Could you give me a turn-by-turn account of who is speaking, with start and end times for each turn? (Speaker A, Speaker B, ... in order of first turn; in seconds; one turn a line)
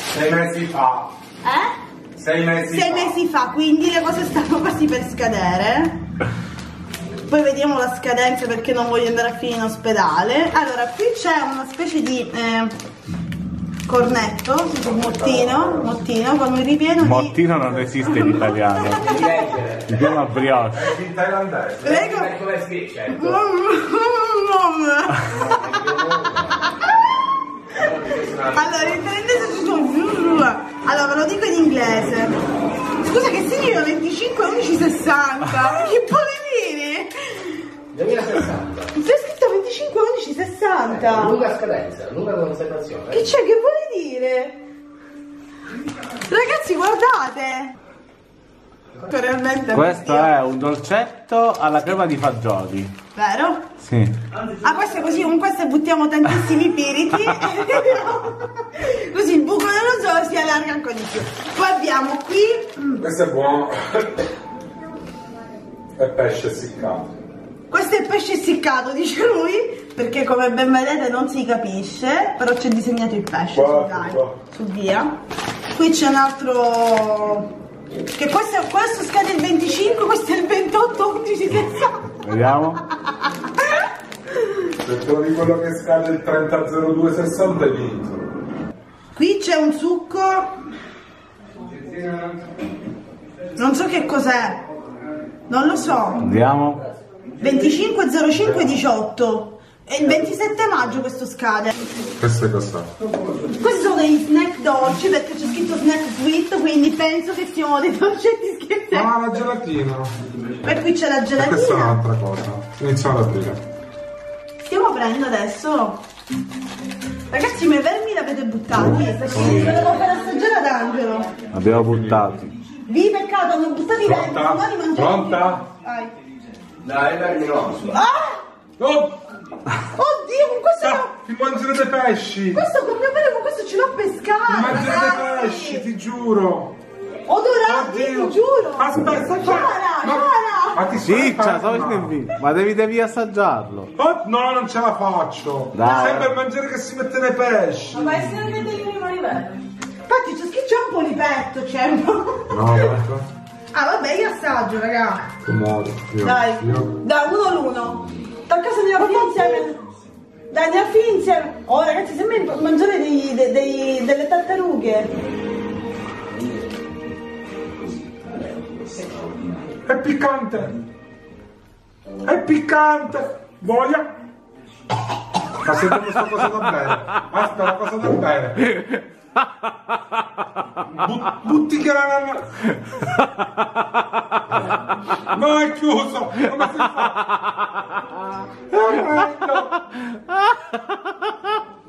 Speaker A: 0.1-1.1
Speaker B: 1.4-1.7
Speaker A: 2.1-3.1
Speaker B: 2.6-6.0
Speaker B: 7.2-12.7
Speaker B: 13.8-17.4
Speaker C: 15.4-15.7
Speaker D: 17.0-19.1
Speaker B: 18.0-19.0
Speaker C: 19.0-20.2
Speaker D: 19.9-20.9
Speaker A: 20.7-21.9
Speaker C: 21.8-23.4
Speaker B: 21.8-22.3
Speaker B: 23.1-25.9
Speaker C: 25.4-26.4
Speaker B: 26.7-27.0
Speaker C: 27.7-29.0
Speaker B: 28.5-32.3
Speaker B: 33.0-37.6
Speaker C: 37.9-38.9
Speaker B: 38.9-41.4
Speaker C: 40.9-43.3
Speaker B: 43.1-44.6
Speaker B: 46.2-47.7
Speaker B: 49.0-50.3
Speaker D: 49.7-52.9
Speaker B: 53.1-53.6
Speaker D: 53.8-54.1
Speaker B: 54.6-63.0
Speaker A: 63.0-64.3
Speaker A: 66.0-67.1
Speaker B: 67.7-75.1
Speaker A: 73.5-74.3
Speaker B: 75.7-77.5
Speaker B: 78.1-82.3
Speaker D: 82.2-82.8
Speaker B: 82.9-83.8
Speaker A: 84.8-88.2
Speaker B: 89.2-90.5
Speaker B: 93.6-94.6
Speaker B: 95.5-96.3
Speaker D: 96.2-96.8
Speaker B: 97.4-101.8
Speaker A: 102.2-102.9
Speaker B: 103.5-109.1
Speaker A: 108.9-110.1
Speaker B: 110.6-112.0
Speaker A: 111.4-113.6
Speaker B: 114.6-116.0
Speaker B: 117.3-121.3
Speaker D: 119.3-119.8
Speaker D: 121.5-122.5
Speaker A: 121.7-122.3
Speaker B: 122.8-126.1
Speaker A: 124.0-125.6
Speaker C: 126.8-127.9
Speaker B: 127.9-128.4
Speaker A: 128.8-129.2
Speaker B: 129.9-131.1
Speaker A: 130.8-132.7
Speaker B: 132.5-135.8
Speaker A: 134.5-136.7
Speaker B: 137.3-140.8
Speaker A: 137.7-142.2
Speaker D: 141.0-143.9
Speaker A: 143.9-148.2
Speaker D: 145.7-146.2
Speaker B: 145.8-146.2
Speaker B: 148.0-149.5
Speaker B: 150.1-153.0
Speaker A: 152.5-153.3
Speaker B: 153.7-155.3
Speaker A: 155.4-156.9
Speaker B: 156.2-159.8
Speaker B: 160.5-165.1
Speaker C: 168.1-169.7
Speaker A: 169.8-170.7
Speaker A: 172.2-174.1
Speaker A: 175.6-178.7
Speaker A: 180.9-182.6
Speaker A: 185.2-187.3
Speaker A: 188.7-189.7